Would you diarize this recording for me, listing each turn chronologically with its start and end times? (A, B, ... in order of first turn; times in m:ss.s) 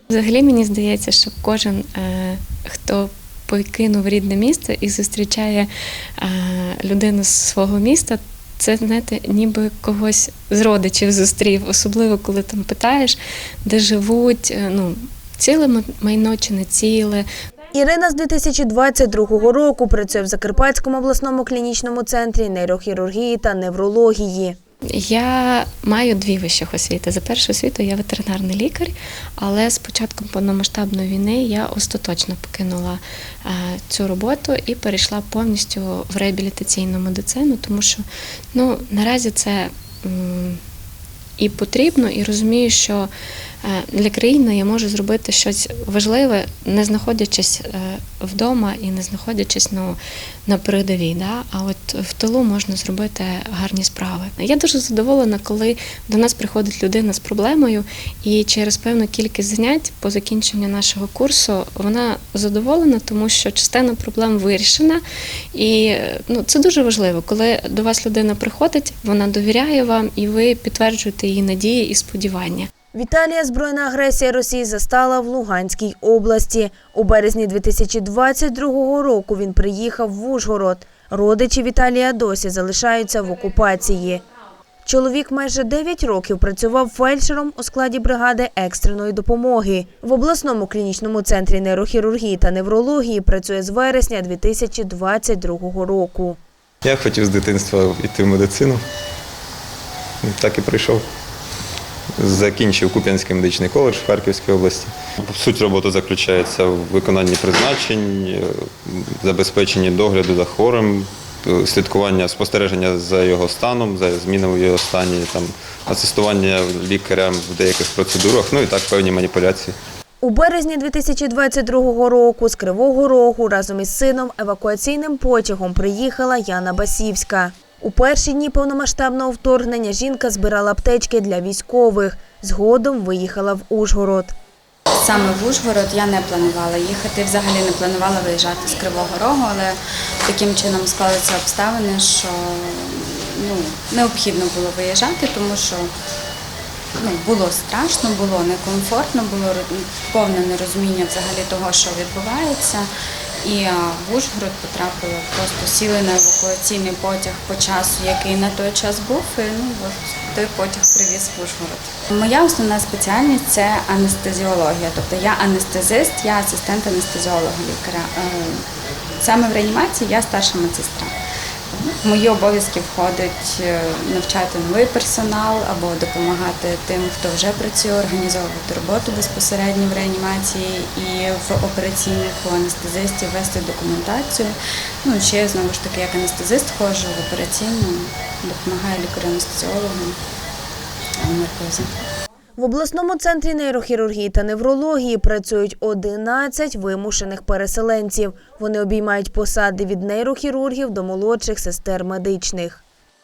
0:00.1-0:17.2 A
0:17.7-0:24.6 B
0:24.9-0:38.0 A
0:38.5-0:40.6 A
0:41.4-0:43.1 A
0:43.6-1:05.0 A
1:05.5-1:12.7 A
1:12.9-1:24.2 B
1:24.8-1:36.4 B
1:36.8-1:38.8 C
1:40.2-1:41.0 C
1:42.2-1:59.8 C
2:00.2-2:14.3 B
2:15.0-2:25.9 D
2:27.0-2:32.9 D
2:33.4-2:48.6 D
2:49.2-2:51.1 D
2:51.7-3:10.2 D
3:11.2-3:12.0 D
3:12.6-3:22.8 B